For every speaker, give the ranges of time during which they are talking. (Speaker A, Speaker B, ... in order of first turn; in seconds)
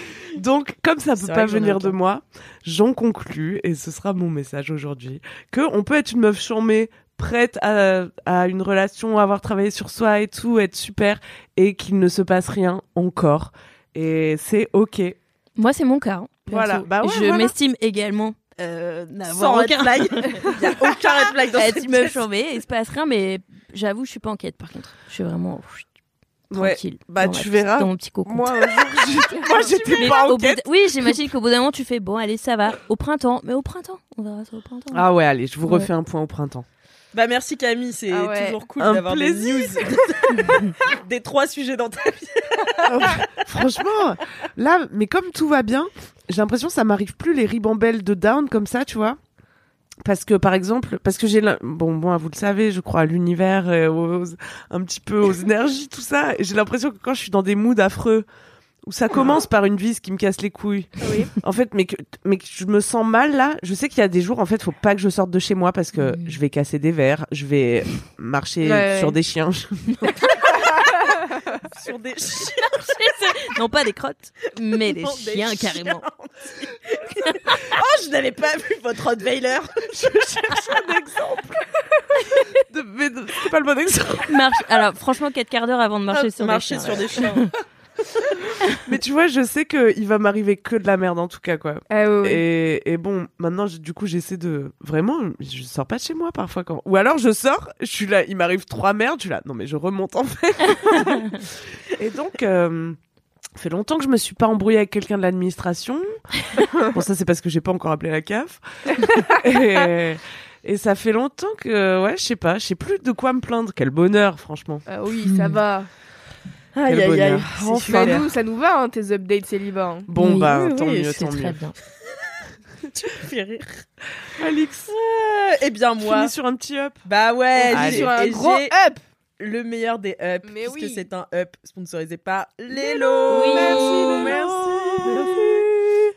Speaker A: 0.3-15.2, 16.5-17.5, 26.5-31.1, 34.9-36.7, 38.8-39.8, 42.9-49.2, 50.0-58.3, 58.9-70.2, 79.9-81.6, 82.7-84.4, 88.9-103.0, 103.6-106.1, 106.9-108.6, 109.3-114.8, 116.9-118.2, 120.1-121.6, 124.4-124.9, 126.0-127.0, 127.7-128.2, 133.3-136.0
Speaker B: 1.2-2.0, 19.3-22.2, 37.1-42.8, 71.7-73.1, 74.6-80.9, 86.1-87.5, 116.7-118.3, 120.6-121.2, 123.0-123.8, 124.9-126.3, 127.0-128.7, 129.4-135.4
Speaker C: 15.6-20.9, 21.5-25.9, 26.5-28.9, 30.0-35.1, 35.6-35.9, 66.0-66.4, 72.8-76.0, 84.3-87.5, 115.3-115.6, 120.2-121.8, 133.3-134.2
Speaker D: 29.3-30.2, 38.1-38.6, 61.0-61.3, 68.6-69.2, 91.9-92.4, 114.9-115.9, 117.9-120.1, 127.5-129.0, 130.4-131.1